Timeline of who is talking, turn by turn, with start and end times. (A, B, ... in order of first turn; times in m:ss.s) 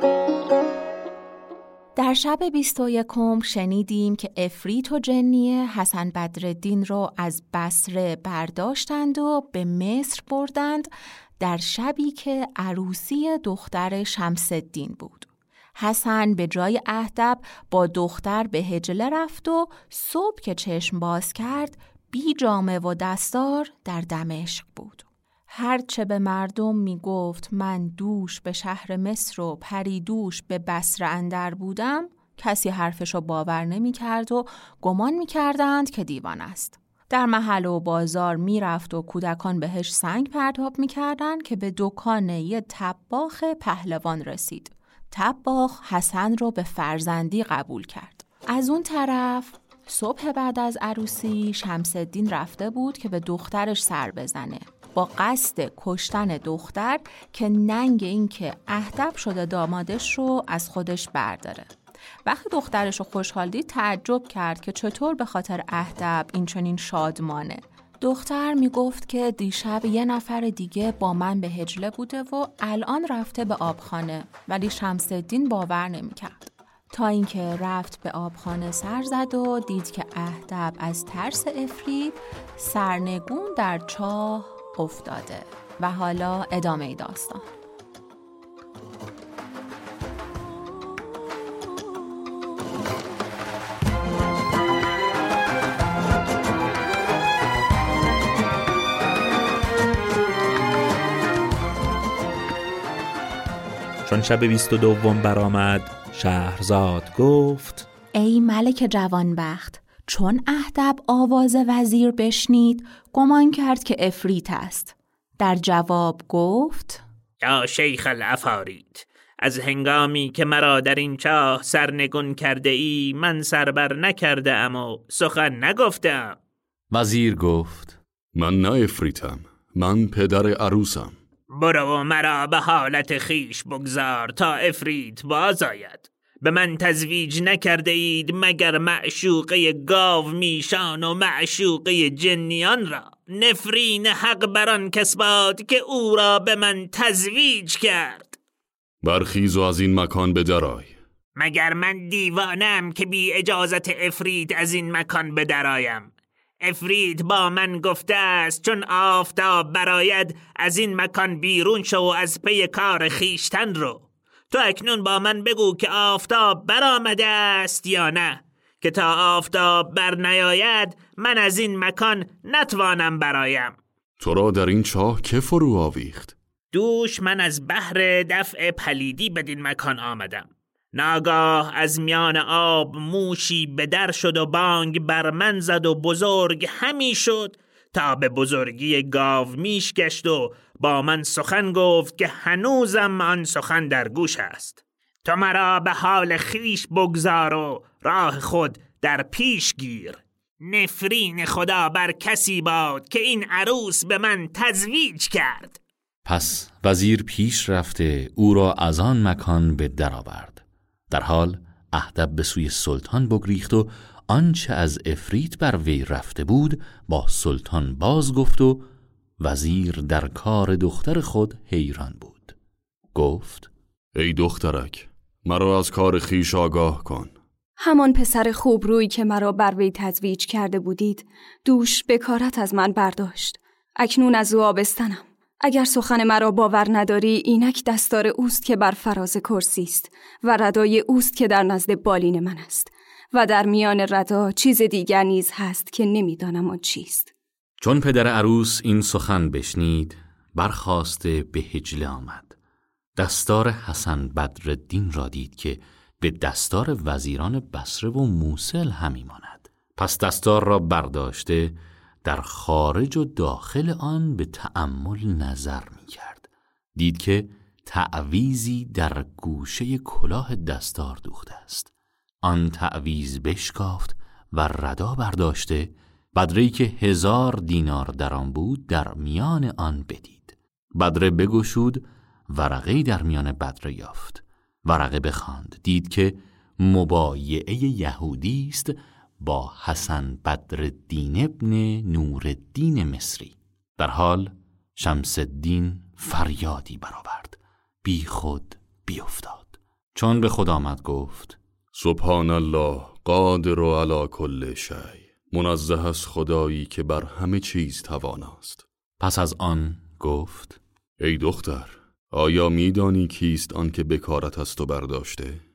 0:02.0-1:01.7 A
1:02.2-1:27.5 A
1:44.0-1:47.9 B
1:48.2-1:57.0 A
1:57.4-2:06.4 C
2:06.9-2:08.0 D
2:08.4-2:11.2 E
2:11.5-2:28.4 C
2:29.0-2:31.0 E
2:31.4-2:36.1 C
2:36.6-2:53.8 C
2:54.2-2:56.4 E
2:56.7-3:25.8 C
3:26.2-3:38.9 D
3:39.4-3:42.6 D
3:43.1-3:43.7 D
3:44.2-3:47.4 E
3:47.8-4:07.3 F
4:07.8-4:12.6 D
4:13.2-5:01.6 D
5:01.9-5:08.8 E
5:09.2-5:10.8 D
5:11.2-5:15.6 E